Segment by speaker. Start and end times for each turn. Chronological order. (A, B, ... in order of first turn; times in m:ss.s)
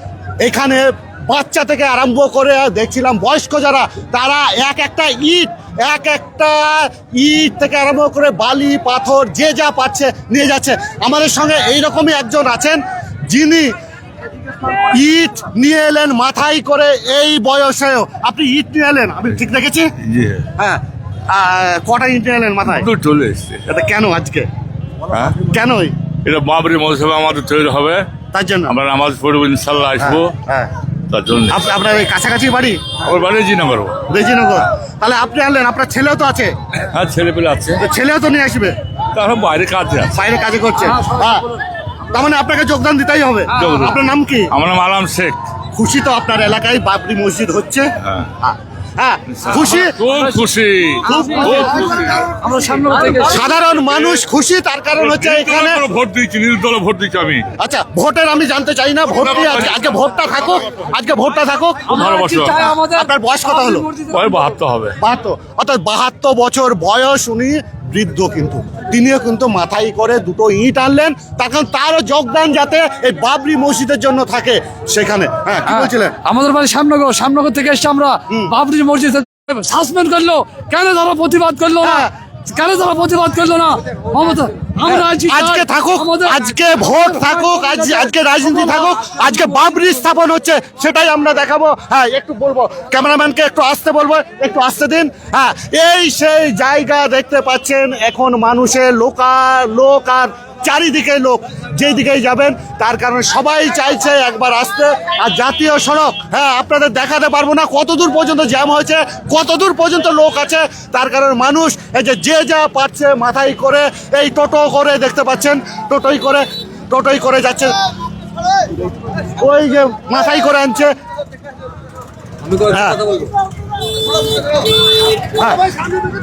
0:00.4-0:13.7 A
0:14.8-0:19.9 A
0:20.0-0:20.4 B
0:20.6-0:22.9 A
0:22.7-0:23.6 B
0:23.6-0:24.5 A
0:25.1-0:25.4 B
0:25.4-0:25.9 A
0:26.2-0:28.1 B
0:28.3-0:28.7 A
0:28.7-0:30.3 B
0:30.0-0:30.7 A
0:31.1-0:31.6 B
0:31.5-0:32.9 A
0:33.0-0:34.0 B
0:34.1-0:36.5 A
0:36.9-0:37.8 B
0:37.8-0:38.8 A
0:39.1-0:40.1 B
0:40.1-0:41.5 A
0:42.1-0:44.5 A
0:43.5-0:44.0 B
0:44.5-0:45.4 B
0:45.7-0:47.9 A
0:48.4-0:50.0 A
0:49.4-0:52.3 B
0:51.0-0:52.0 A
0:51.2-0:51.7 C
0:52.3-0:53.4 C
0:53.2-0:55.8 A
0:55.0-0:57.4 B
0:57.6-1:02.0 A
0:59.3-0:59.7 B
1:01.9-1:03.1 C
1:02.0-1:02.7 B
1:02.7-1:03.9 A
1:03.6-1:04.2 C
1:04.1-1:05.0 B
1:05.0-1:16.2 A
1:15.7-1:26.4 C
1:18.3-1:18.6 A
1:21.8-1:22.1 A
1:24.8-1:57.7 A
1:59.3-2:00.9 A
2:02.6-2:03.2 A
2:05.3-2:05.7 A